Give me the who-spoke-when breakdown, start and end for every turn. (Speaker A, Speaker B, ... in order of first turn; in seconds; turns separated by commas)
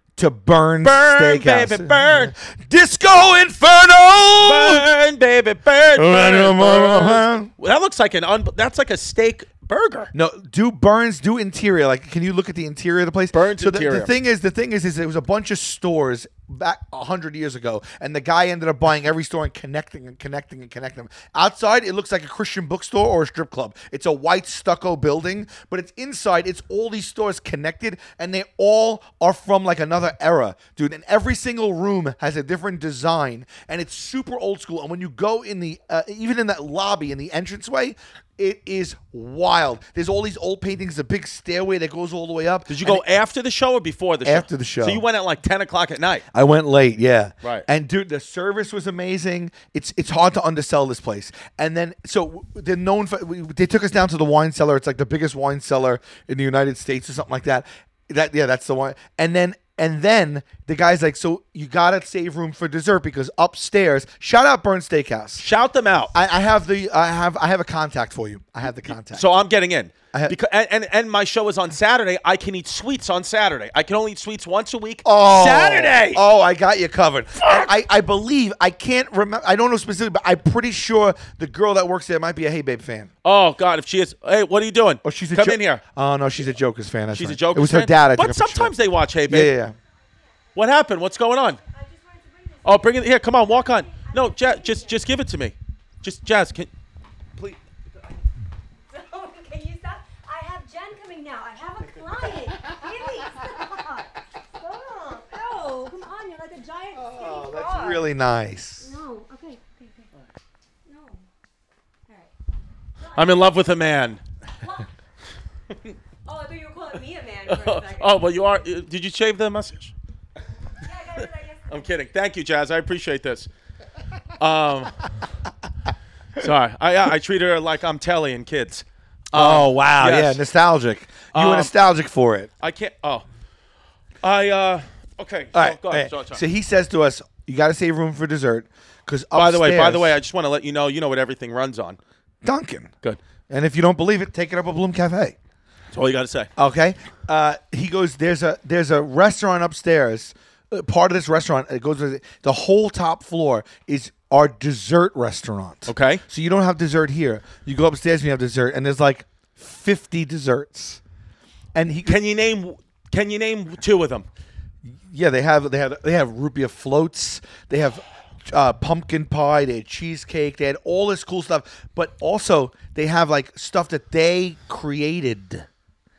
Speaker A: 0.2-4.9, Speaker B: 0.8-2.3, Speaker B: 4.4-10.1, Speaker A: 6.0-7.5, Speaker A: 10.1-43.0, Speaker B: 13.3-14.1, Speaker B: 42.7-46.2, Speaker A: 44.2-45.0, Speaker A: 46.3-65.5, Speaker B: 65.4-66.1, Speaker A: 66.1-69.3, Speaker B: 68.9-76.2, Speaker A: 75.0-83.1, Speaker B: 77.4-77.7, Speaker B: 83.2-85.8, Speaker A: 85.0-88.7, Speaker B: 87.1-89.5, Speaker A: 89.3-89.8, Speaker C: 89.8-90.7, Speaker B: 90.5-91.6, Speaker C: 91.4-95.0, Speaker B: 92.7-96.7, Speaker C: 98.9-108.1, Speaker A: 107.0-108.9, Speaker C: 108.8-110.1, Speaker C: 110.9-111.2, Speaker C: 113.0-113.6, Speaker B: 113.1-114.2, Speaker C: 114.6-114.9, Speaker C: 116.2-118.2, Speaker B: 117.5-119.9, Speaker C: 120.8-122.0, Speaker B: 121.7-123.5, Speaker B: 124.4-125.0, Speaker B: 126.4-130.4, Speaker A: 129.3-132.5, Speaker B: 131.3-131.7, Speaker B: 132.6-133.3, Speaker B: 134.2-136.4, Speaker A: 135.5-140.2, Speaker B: 139.3-142.0, Speaker A: 142.4-142.9, Speaker A: 143.5-145.4, Speaker B: 145.9-146.5, Speaker A: 146.6-161.0, Speaker B: 155.9-156.2, Speaker A: 161.8-162.2, Speaker B: 162.1-164.3, Speaker A: 164.8-175.7